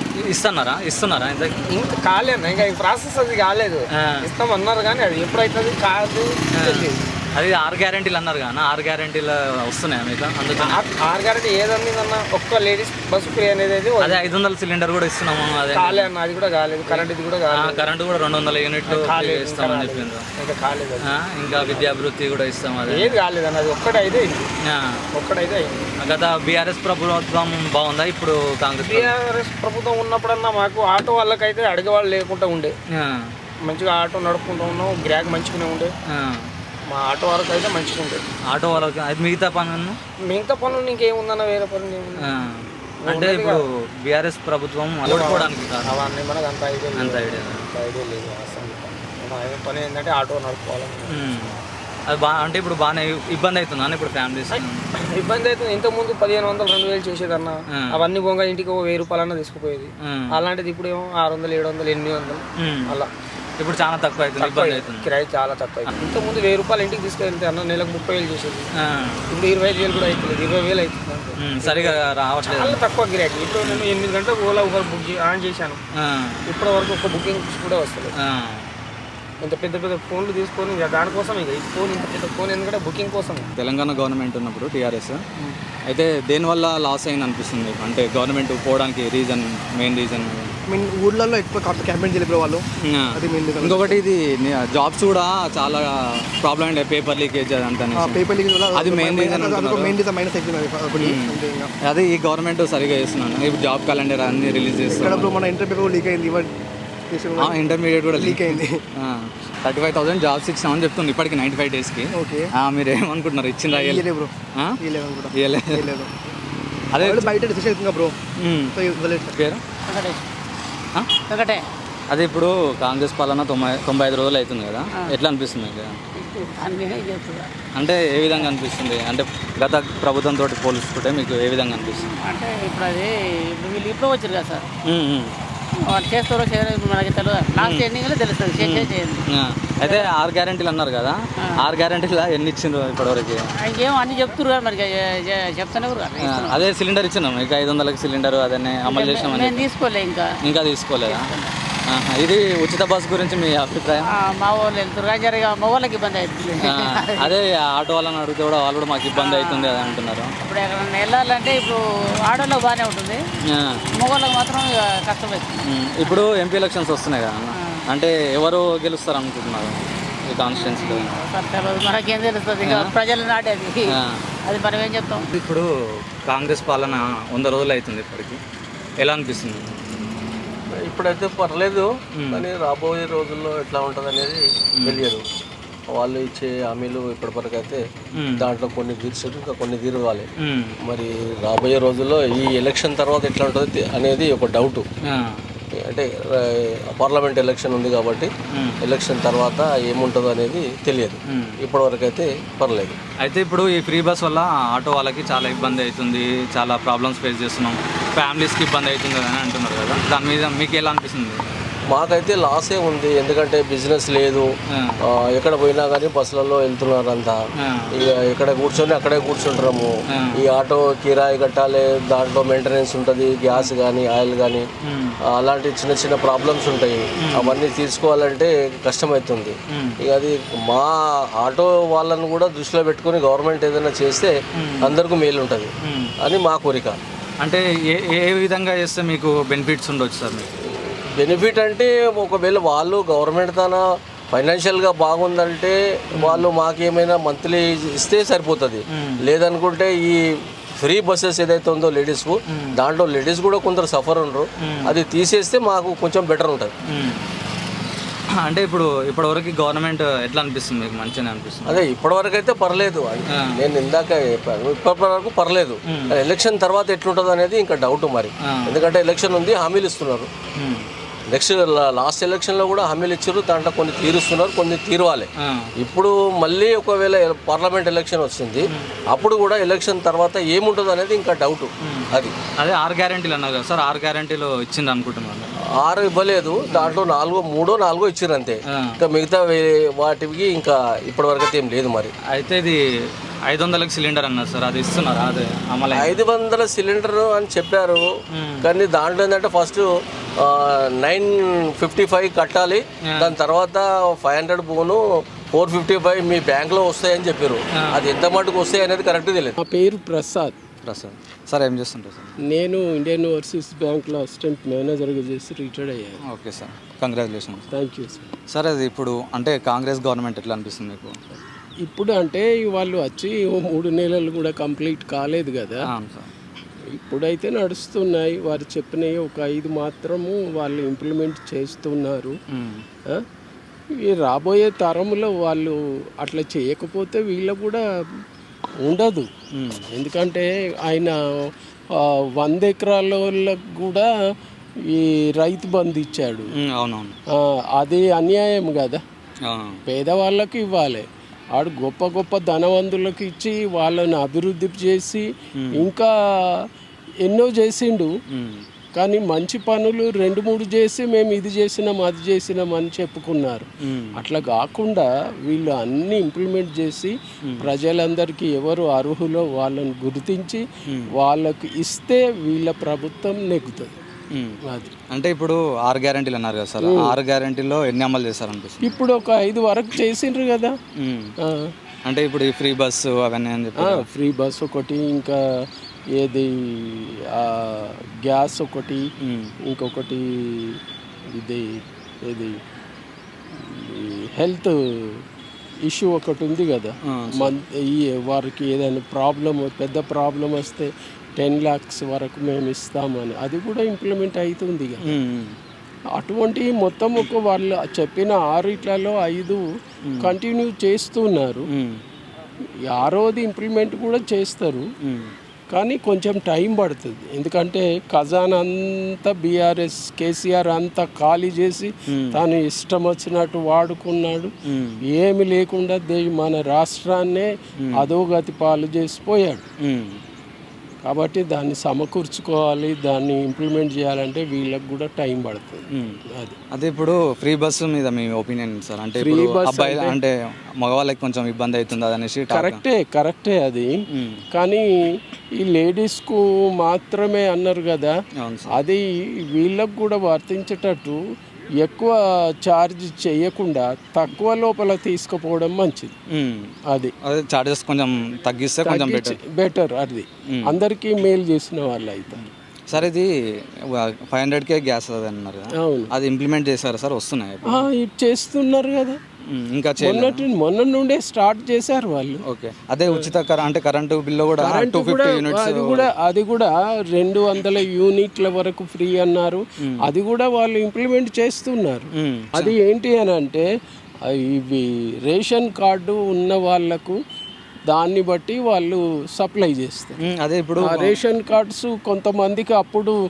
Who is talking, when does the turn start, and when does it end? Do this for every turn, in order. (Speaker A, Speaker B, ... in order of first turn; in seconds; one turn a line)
Speaker A: 0.2-1.6
Speaker B: 1.7-6.3
Speaker A: 6.5-10.8
Speaker B: 10.7-14.2
Speaker A: 14.0-16.1
Speaker B: 15.7-17.8
Speaker A: 16.9-20.2
Speaker B: 18.9-21.8
Speaker A: 21.1-23.2
Speaker B: 22.9-24.5
Speaker A: 24.7-25.0
Speaker B: 25.2-25.7
Speaker A: 26.0-29.1
Speaker B: 28.9-32.7
Speaker A: 32.9-33.3
Speaker B: 33.6-35.9
Speaker A: 36.1-36.5
Speaker B: 36.9-38.2
Speaker A: 38.5-40.0
Speaker B: 40.3-42.2
Speaker A: 42.2-46.0
Speaker B: 43.0-43.6
Speaker B: 45.1-51.2
Speaker A: 47.0-47.6
Speaker A: 51.1-51.6
Speaker A: 52.1-54.8
Speaker B: 55.1-62.4
Speaker A: 57.8-58.0
Speaker A: 62.6-63.0
Speaker A: 63.6-65.1
Speaker B: 64.4-68.7
Speaker A: 68.8-69.2
Speaker B: 69.3-71.9
Speaker A: 71.4-72.8
Speaker B: 72.5-75.8
Speaker A: 76.0-76.4
Speaker B: 76.5-78.1
Speaker A: 78.2-78.7
Speaker B: 79.4-83.5
Speaker A: 83.6-85.2
Speaker A: 85.9-90.5
Speaker C: 90.7-92.6
Speaker A: 92.8-100.0
Speaker C: 93.2-94.0
Speaker C: 98.0-101.7
Speaker A: 101.0-105.3
Speaker C: 104.9-106.5
Speaker C: 107.1-108.8
Speaker A: 107.4-114.8
Speaker C: 112.1-112.5
Speaker C: 113.7-116.2
Speaker A: 115.4-115.9
Speaker A: 116.9-117.3
Speaker C: 117.0-118.2
Speaker A: 118.4-119.6
Speaker C: 118.8-119.3
Speaker D: 119.9-120.2
Speaker D: 121.3-121.6
Speaker A: 122.1-126.0
Speaker D: 126.2-127.5
Speaker A: 127.8-132.1
Speaker D: 132.1-134.7
Speaker A: 134.9-135.3
Speaker D: 135.9-139.2
Speaker A: 137.6-137.9
Speaker A: 138.6-143.5
Speaker D: 139.8-140.1
Speaker D: 143.6-146.6
Speaker A: 146.2-149.7
Speaker D: 148.9-150.3
Speaker A: 150.4-151.3
Speaker D: 151.1-151.5
Speaker A: 151.9-154.1
Speaker D: 154.1-157.3
Speaker A: 156.6-160.3
Speaker D: 159.2-163.2
Speaker A: 163.5-163.8
Speaker D: 164.0-166.2
Speaker A: 165.7-171.1
Speaker D: 170.5-173.9
Speaker A: 172.6-172.9
Speaker A: 173.9-174.3
Speaker D: 174.5-175.2
Speaker A: 175.3-175.7
Speaker A: 176.2-178.4
Speaker A: 179.0-179.8
Speaker E: 180.8-185.2
Speaker A: 182.2-182.5
Speaker A: 184.8-185.1
Speaker E: 185.9-187.8
Speaker A: 188.2-188.5
Speaker E: 188.4-190.3
Speaker A: 190.4-190.8
Speaker E: 190.8-194.9
Speaker A: 195.1-195.4
Speaker E: 195.8-198.3
Speaker A: 198.5-198.8
Speaker E: 198.8-203.0
Speaker A: 201.3-201.6
Speaker A: 203.2-211.4
Speaker E: 211.9-214.5
Speaker A: 214.7-215.0
Speaker E: 215.2-217.4
Speaker A: 217.6-217.9
Speaker E: 218.0-224.7
Speaker A: 224.8-225.2
Speaker E: 225.3-235.7
Speaker A: 227.2-227.6
Speaker A: 229.7-230.0
Speaker A: 234.6-234.9
Speaker A: 235.8-236.1
Speaker E: 236.2-237.0
Speaker A: 237.4-240.5
Speaker E: 240.8-250.2
Speaker A: 246.2-246.4
Speaker A: 248.9-249.2
Speaker E: 250.8-256.7
Speaker A: 254.6-255.0
Speaker A: 256.9-257.3
Speaker A: 258.4-261.8
Speaker E: 261.7-270.3
Speaker A: 265.9-266.1
Speaker A: 268.5-268.8
Speaker A: 270.6-270.9
Speaker E: 271.3-282.3
Speaker A: 275.4-275.7
Speaker A: 281.8-285.5
Speaker E: 285.8-292.1
Speaker A: 286.7-287.0
Speaker A: 292.3-292.8
Speaker A: 293.5-296.2
Speaker E: 295.9-298.0
Speaker A: 298.3-298.6
Speaker E: 298.6-299.9
Speaker E: 300.4-309.6
Speaker A: 303.1-303.4
Speaker F: 309.6-310.6
Speaker A: 310.9-312.3
Speaker F: 312.5-316.2
Speaker A: 316.3-317.7
Speaker F: 317.7-318.3
Speaker A: 318.5-321.1
Speaker F: 321.8-325.9
Speaker A: 325.9-326.3
Speaker F: 326.9-332.3
Speaker A: 332.5-332.8
Speaker F: 334.1-337.8
Speaker F: 338.9-339.3
Speaker A: 339.6-339.8
Speaker F: 339.9-341.1
Speaker F: 342.0-344.1
Speaker F: 344.9-346.5
Speaker A: 346.7-347.1
Speaker F: 347.8-349.0
Speaker A: 349.5-349.8
Speaker F: 349.9-356.6
Speaker A: 355.6-355.9
Speaker F: 357.2-358.1
Speaker A: 358.3-358.6
Speaker F: 359.0-370.6
Speaker A: 363.9-364.2
Speaker F: 371.2-373.9
Speaker A: 375.1-378.9
Speaker F: 376.8-377.2
Speaker F: 378.8-380.7
Speaker A: 381.0-381.3
Speaker A: 382.1-384.1
Speaker F: 383.8-385.4
Speaker F: 386.2-389.0
Speaker A: 389.2-389.5
Speaker F: 389.7-390.8
Speaker F: 391.4-392.5
Speaker F: 393.6-395.2
Speaker F: 395.9-405.1
Speaker A: 397.1-397.5
Speaker A: 405.1-405.6
Speaker F: 406.1-409.6
Speaker F: 410.2-411.6
Speaker A: 411.7-412.0
Speaker F: 412.9-414.9
Speaker A: 415.0-415.3
Speaker F: 415.7-424.5
Speaker A: 422.1-422.4
Speaker A: 424.7-425.0
Speaker F: 425.1-429.7
Speaker A: 427.8-428.1
Speaker A: 429.8-430.2
Speaker F: 431.0-435.9
Speaker A: 436.7-442.8
Speaker F: 439.2-440.2
Speaker F: 442.5-443.9
Speaker A: 444.1-444.4
Speaker F: 444.5-444.9
Speaker F: 445.6-448.1
Speaker A: 448.4-448.7
Speaker F: 448.7-451.2
Speaker F: 451.8-456.1
Speaker A: 456.3-456.7
Speaker A: 457.2-459.4
Speaker F: 458.9-462.4
Speaker A: 462.4-463.3
Speaker A: 463.9-467.9
Speaker F: 465.8-466.1
Speaker F: 467.7-469.2
Speaker A: 469.5-470.4
Speaker F: 470.0-472.4
Speaker A: 472.5-476.1
Speaker F: 474.6-483.7
Speaker A: 482.2-482.7
Speaker F: 484.3-487.2
Speaker F: 487.9-490.2
Speaker A: 490.3-491.2
Speaker F: 490.8-493.1